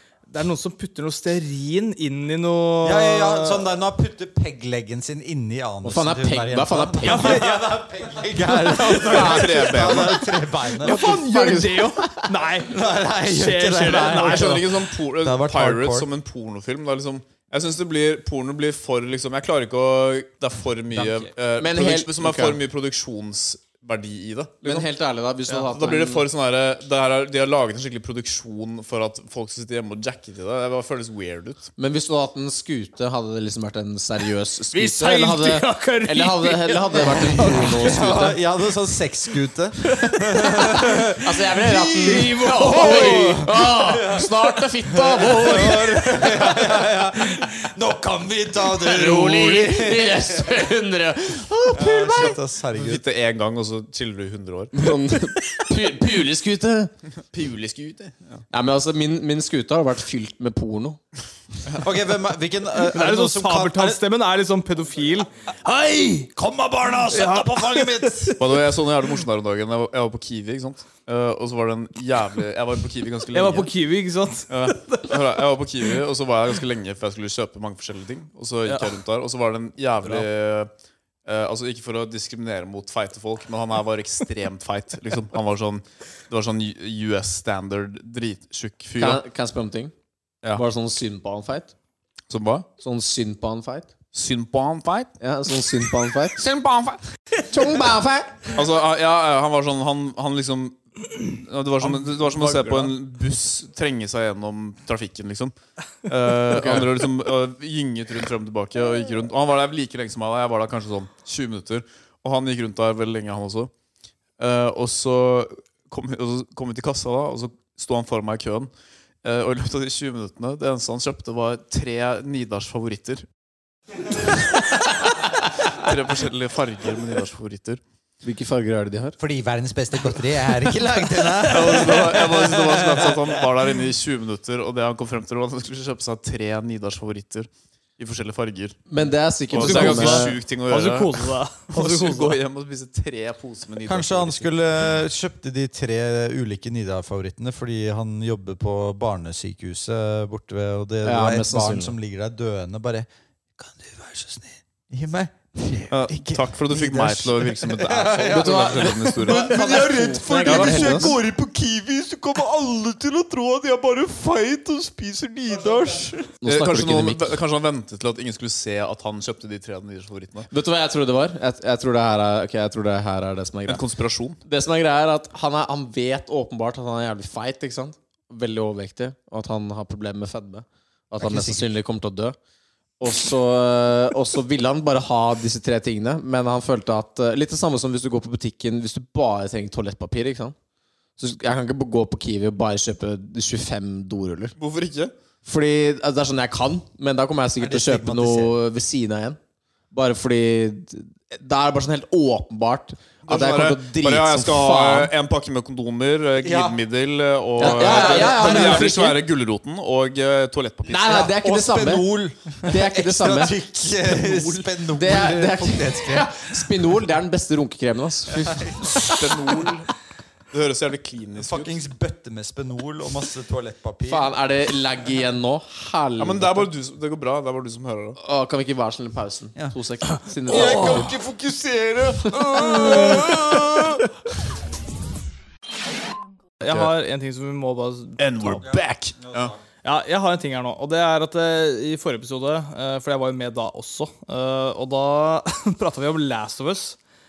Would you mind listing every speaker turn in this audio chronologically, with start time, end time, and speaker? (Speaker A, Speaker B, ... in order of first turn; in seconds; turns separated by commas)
Speaker A: 0.3-3.7, Speaker B: 2.8-11.0, Speaker C: 5.8-7.5, Speaker A: 7.0-7.6, Speaker A: 8.7-9.4, Speaker D: 8.9-10.3, Speaker C: 9.0-9.4, Speaker A: 10.8-14.6, Speaker C: 10.8-12.3, Speaker D: 11.1-11.6, Speaker B: 12.7-16.1, Speaker D: 14.0-24.9, Speaker B: 20.9-21.3, Speaker C: 21.6-22.6, Speaker C: 24.6-26.3, Speaker D: 25.7-31.7, Speaker C: 31.8-38.4, Speaker A: 34.7-37.9, Speaker B: 37.4-44.4, Speaker A: 40.0-40.7, Speaker C: 40.7-46.6, Speaker A: 42.0-43.5, Speaker B: 44.9-50.6, Speaker C: 48.8-52.4, Speaker B: 51.7-53.0, Speaker D: 52.7-54.9, Speaker C: 54.7-56.9, Speaker D: 57.3-58.4, Speaker C: 58.5-61.0, Speaker B: 61.8-64.0, Speaker A: 62.8-66.3, Speaker B: 66.3-68.4, Speaker A: 67.0-68.6, Speaker D: 68.4-73.7, Speaker A: 73.3-75.2, Speaker D: 74.5-80.7, Speaker A: 78.7-79.0, Speaker D: 81.3-89.2, Speaker C: 89.0-89.9, Speaker C: 90.5-91.7, Speaker D: 92.3-92.7, Speaker C: 92.8-93.9, Speaker D: 94.1-95.1, Speaker C: 95.2-96.4, Speaker D: 96.4-97.0, Speaker C: 97.5-98.4, Speaker D: 98.5-105.5, Speaker A: 101.8-102.9, Speaker D: 106.1-113.7, Speaker C: 106.5-106.9, Speaker D: 114.4-118.7, Speaker D: 119.2-123.3, Speaker D: 125.7-127.8, Speaker C: 128.2-129.2, Speaker B: 129.2-133.4, Speaker D: 131.5-138.8, Speaker C: 138.9-140.4, Speaker D: 139.5-144.5, Speaker A: 139.6-142.4, Speaker B: 143.8-166.3, Speaker C: 151.0-151.9, Speaker D: 155.9-159.6, Speaker C: 158.3-161.2, Speaker D: 160.4-161.0, Speaker C: 166.4-167.4, Speaker D: 166.4-170.5, Speaker C: 170.5-173.8, Speaker D: 173.7-174.4, Speaker C: 174.4-182.4, Speaker B: 181.2-181.7, Speaker C: 183.0-190.6, Speaker C: 191.2-194.6, Speaker D: 194.6-195.1, Speaker C: 195.4-199.4, Speaker B: 197.6-198.6, Speaker C: 199.9-205.1, Speaker D: 203.3-211.2, Speaker B: 206.4-206.8, Speaker B: 207.6-209.1, Speaker C: 207.6-209.2, Speaker C: 210.9-212.1, Speaker B: 211.1-216.6, Speaker C: 212.6-213.6, Speaker C: 214.9-218.9, Speaker B: 218.3-219.1, Speaker D: 219.0-219.9, Speaker D: 220.5-221.8, Speaker B: 221.4-224.3, Speaker C: 224.1-226.7, Speaker D: 226.2-228.2, Speaker C: 228.2-231.1, Speaker B: 230.5-234.0, Speaker A: 230.5-231.1, Speaker D: 230.5-230.9, Speaker D: 232.4-233.5, Speaker A: 232.6-233.3, Speaker A: 236.6-238.7, Speaker D: 236.6-236.9, Speaker D: 238.2-239.5, Speaker B: 238.6-239.6, Speaker A: 239.8-247.0